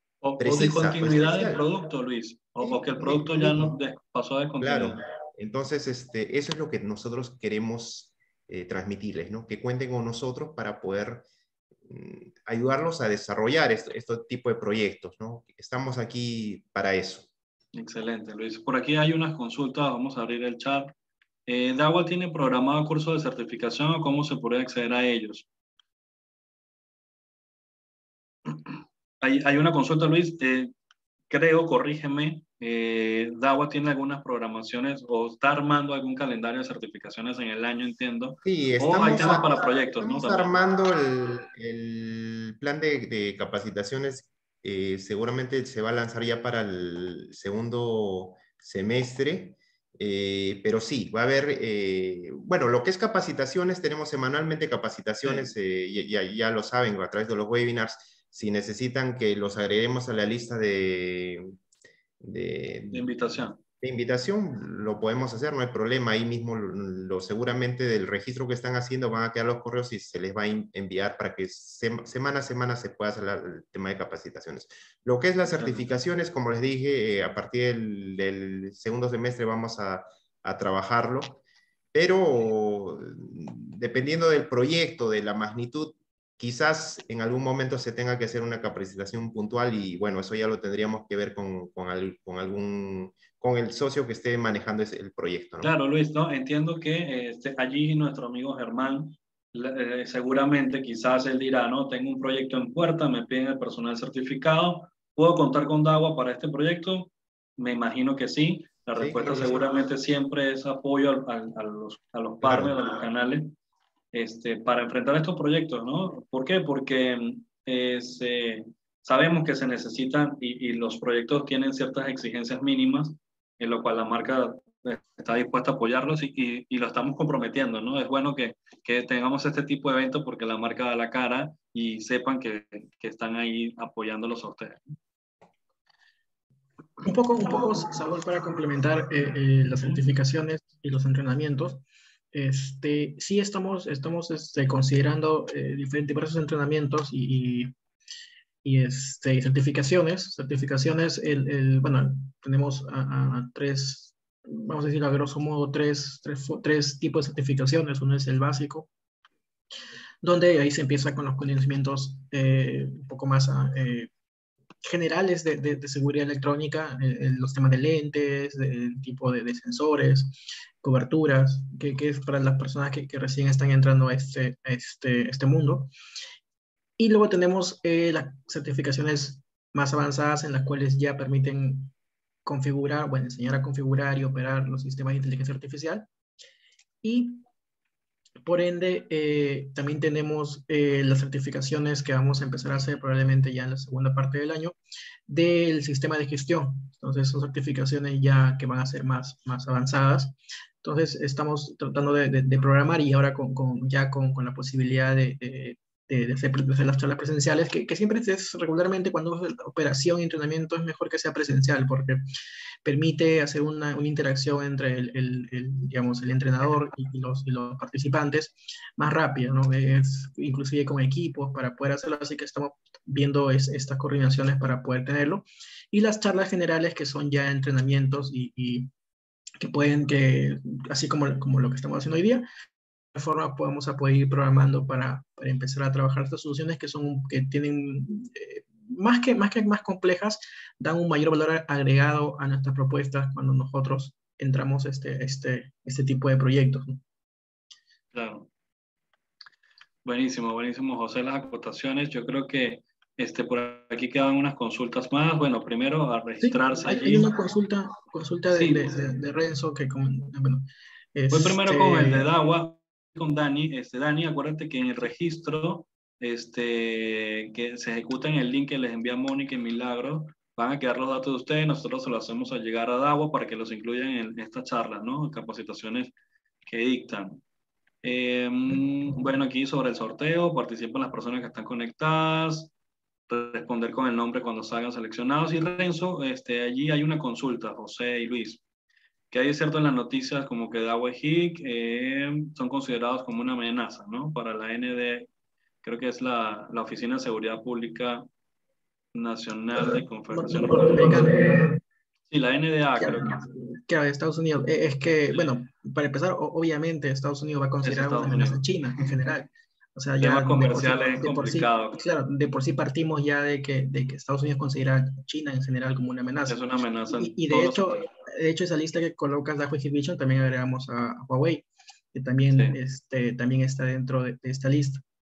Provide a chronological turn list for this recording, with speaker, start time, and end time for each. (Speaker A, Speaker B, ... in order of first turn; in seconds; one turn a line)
Speaker A: 0.2-5.0
Speaker B: 0.4-1.7
Speaker B: 2.6-3.8
Speaker B: 4.6-11.3
Speaker B: 11.9-17.3
Speaker A: 17.8-20.9
Speaker A: 21.5-25.5
Speaker A: 29.2-30.7
Speaker A: 31.3-40.6
Speaker B: 38.5-61.5
Speaker A: 55.2-55.5
Speaker B: 62.2-81.4
Speaker A: 62.9-63.6
Speaker A: 75.5-75.9
Speaker B: 81.9-95.7
Speaker A: 95.6-113.5
Speaker B: 109.0-109.7
Speaker B: 112.4-112.8
Speaker A: 114.1-134.8
Speaker C: 137.0-147.7
Speaker C: 148.6-158.9
Speaker C: 160.2-164.1
Speaker C: 164.8-175.9
Speaker C: 177.0-181.9
Speaker C: 182.4-186.1
Speaker C: 187.0-187.5
Speaker C: 188.4-194.8
Speaker C: 195.3-212.2
Speaker C: 212.8-228.9
Speaker C: 229.6-232.5
Speaker C: 233.1-247.0
Speaker A: 248.1-248.5
Speaker A: 250.1-257.3
Speaker C: 256.4-262.3
Speaker A: 258.5-258.9
Speaker A: 261.3-276.1
Speaker A: 276.7-277.4
Speaker A: 278.0-282.7
Speaker A: 283.3-288.6
Speaker A: 289.3-295.3
Speaker A: 295.8-298.3
Speaker A: 299.1-301.2
Speaker C: 299.9-301.8
Speaker A: 302.3-303.4
Speaker C: 303.0-316.6
Speaker A: 307.8-308.6
Speaker A: 310.2-312.0
Speaker A: 316.5-318.1
Speaker C: 317.2-325.0
Speaker A: 322.5-322.8